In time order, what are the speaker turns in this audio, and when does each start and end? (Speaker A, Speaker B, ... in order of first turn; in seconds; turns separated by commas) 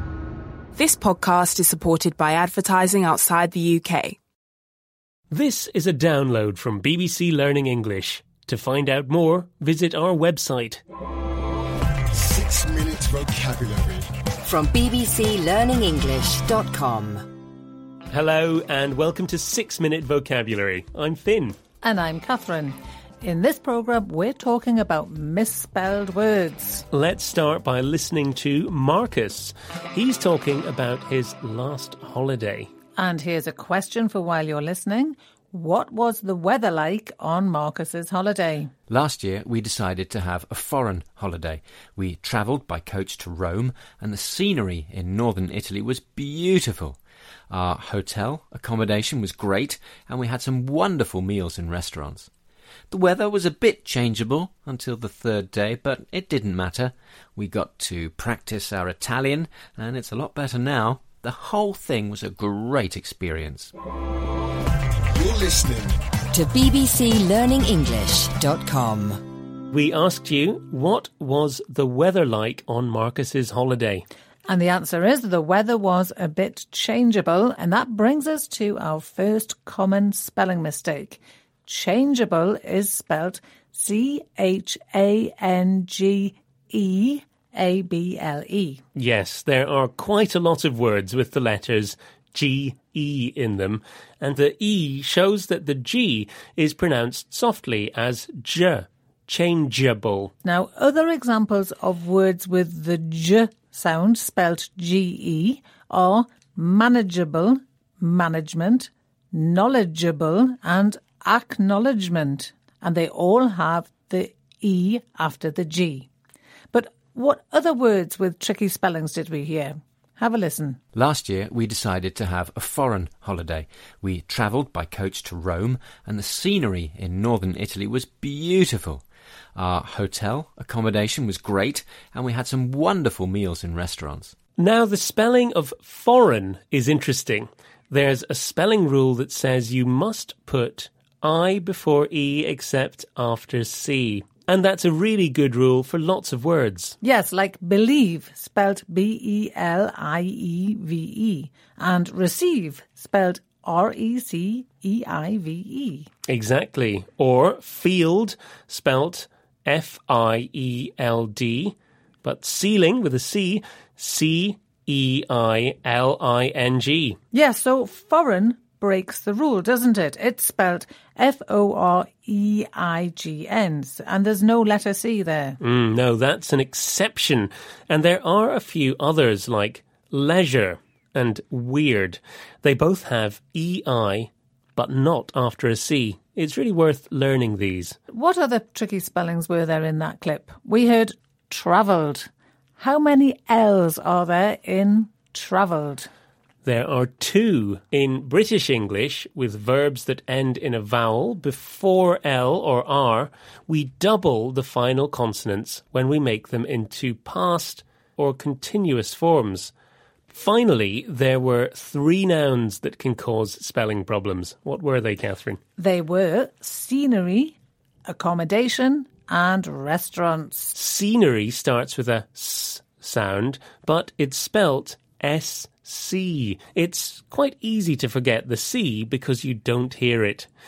Speaker A: 0.7-4.2, Speaker B: 5.3-10.8, Speaker C: 12.1-14.1, Speaker D: 14.4-17.2, Speaker B: 18.1-21.6, Speaker E: 21.8-26.9, Speaker B: 26.9-32.7, Speaker E: 33.0-38.7, Speaker F: 38.9-47.0, Speaker F: 47.5-52.3, Speaker F: 52.9-63.7, Speaker C: 65.1-66.0, Speaker D: 66.3-69.2, Speaker B: 69.7-74.0, Speaker E: 74.5-88.8, Speaker B: 89.0-100.3, Speaker E: 100.4-116.1, Speaker E: 116.7-120.8, Speaker F: 120.9-129.0, Speaker F: 129.6-134.3, Speaker B: 134.6-147.0, Speaker E: 147.0-156.1, Speaker B: 156.3-167.2, Speaker E: 167.3-175.6, Speaker B: 175.6-187.9, Speaker E: 188.1-196.1, Speaker B: 196.6-209.7, Speaker B: 210.3-215.6, Speaker E: 215.8-220.7, Speaker B: 220.7-230.5